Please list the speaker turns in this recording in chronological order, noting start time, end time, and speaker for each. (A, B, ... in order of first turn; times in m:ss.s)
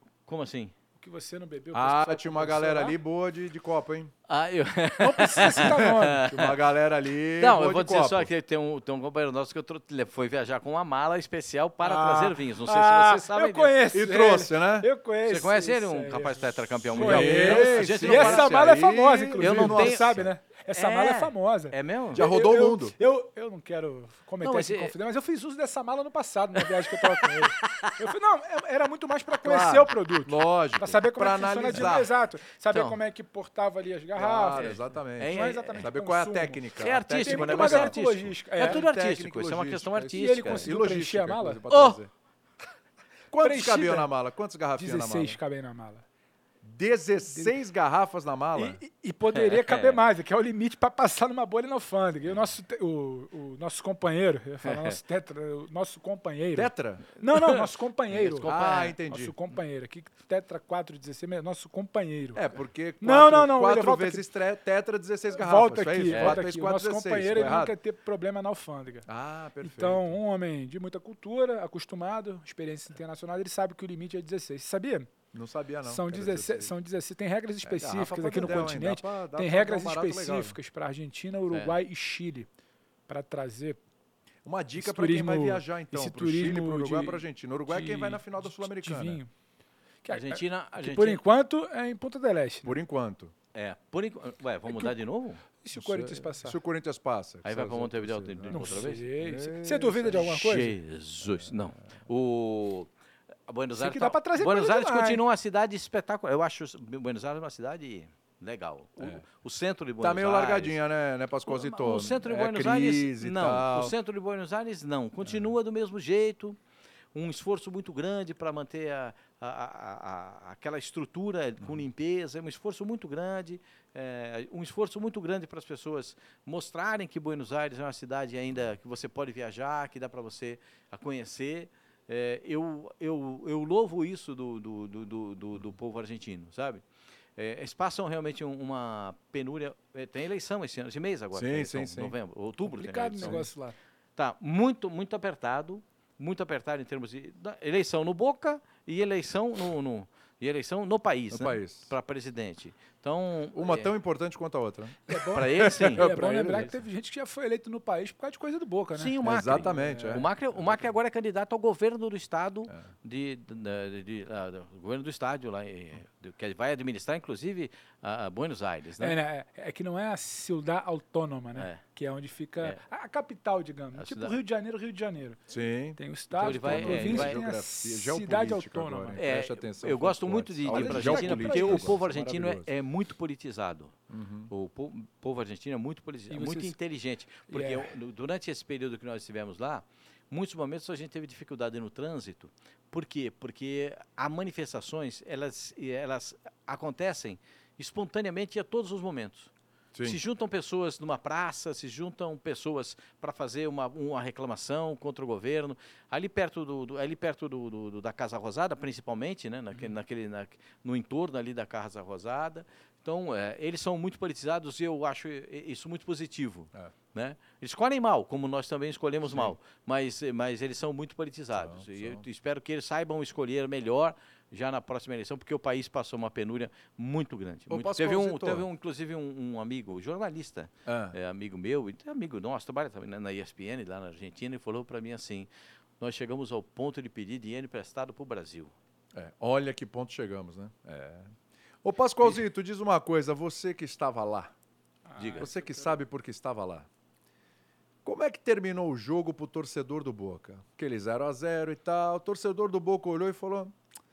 0:00.3-0:00.7 A
0:01.0-0:03.0 B
0:01.7-0:04.1 C
0:04.3-0:06.6 A
0:05.0-0:06.3 B
0:05.4-0:08.3 C
0:07.4-0:13.7 A
0:11.8-0:38.9 B
0:13.9-0:14.9 C
0:15.3-0:18.6 A
0:16.9-0:20.3 C
0:19.4-0:22.3 A
0:22.1-0:22.9 C
0:24.4-0:24.9 A
0:26.6-0:27.9 A
0:29.4-0:32.1 C
0:32.7-0:33.0 A
0:34.2-0:38.0 C
0:34.5-0:35.9 A
0:36.8-0:40.7 A
0:38.6-0:42.1 C
0:40.1-0:41.6 B
0:41.7-0:42.0 A
0:43.3-0:45.4 C
0:43.4-0:44.1 B
0:44.8-0:46.0 B
0:46.6-0:48.8 C
0:48.6-1:02.4 B
0:49.3-0:50.0 A
0:54.7-0:55.0 A
0:56.6-0:57.0 C
0:57.3-0:57.6 A
0:58.1-0:59.0 A
0:58.4-0:59.3 C
1:02.4-1:07.8 C
1:03.0-1:04.3 B
1:05.3-1:09.1 B
1:06.1-1:06.4 A
1:09.1-1:10.2 C
1:09.6-1:15.1 B
1:15.3-1:16.7 C
1:15.9-1:22.5 B
1:17.7-1:20.6 C
1:21.5-1:21.8 A
1:23.1-1:23.8 B
1:24.4-1:29.2 C
1:24.8-1:29.3 B
1:30.0-1:32.8 B
1:30.1-1:31.2 A
1:32.6-1:33.3 C
1:33.5-1:35.4 A
1:35.6-1:36.6 B
1:35.7-1:40.3 C
1:37.4-1:39.1 A
1:38.5-1:40.8 B
1:40.2-1:42.9 A
1:43.5-1:50.8 A
1:43.8-1:45.2 B
1:50.0-1:54.0 C
1:51.5-1:56.6 A
1:55.2-1:55.5 C
1:57.1-2:16.8 A
2:17.4-2:23.5 A
2:21.3-2:22.2 C
2:22.7-2:23.8 B
2:23.2-2:23.5 C
2:24.2-2:33.9 A
2:31.3-2:31.9 C
2:33.6-2:36.7 C
2:35.1-2:40.3 B
2:35.3-2:36.7 A
2:38.9-2:49.2 A
2:39.2-2:40.8 C
2:49.0-2:55.4 B
2:51.6-2:51.8 A
2:54.0-2:54.4 A
2:55.5-3:02.7 C
2:56.0-2:59.2 B
2:56.4-2:57.5 A
2:59.2-3:04.0 A
3:00.7-3:02.0 B
3:04.1-3:04.5 C
3:04.5-3:19.5 A
3:06.3-3:06.8 B
3:07.5-3:07.9 B
3:19.9-3:20.2 C
3:20.0-3:55.5 A
3:39.2-3:39.6 C
3:41.6-3:42.2 C
3:47.7-3:48.7 C
3:50.9-3:51.2 C
3:56.0-3:58.7 A
3:59.1-4:04.5 C
4:05.1-4:06.0 B
4:05.2-4:05.5 A
4:05.4-4:06.9 C
4:08.0-4:13.8 C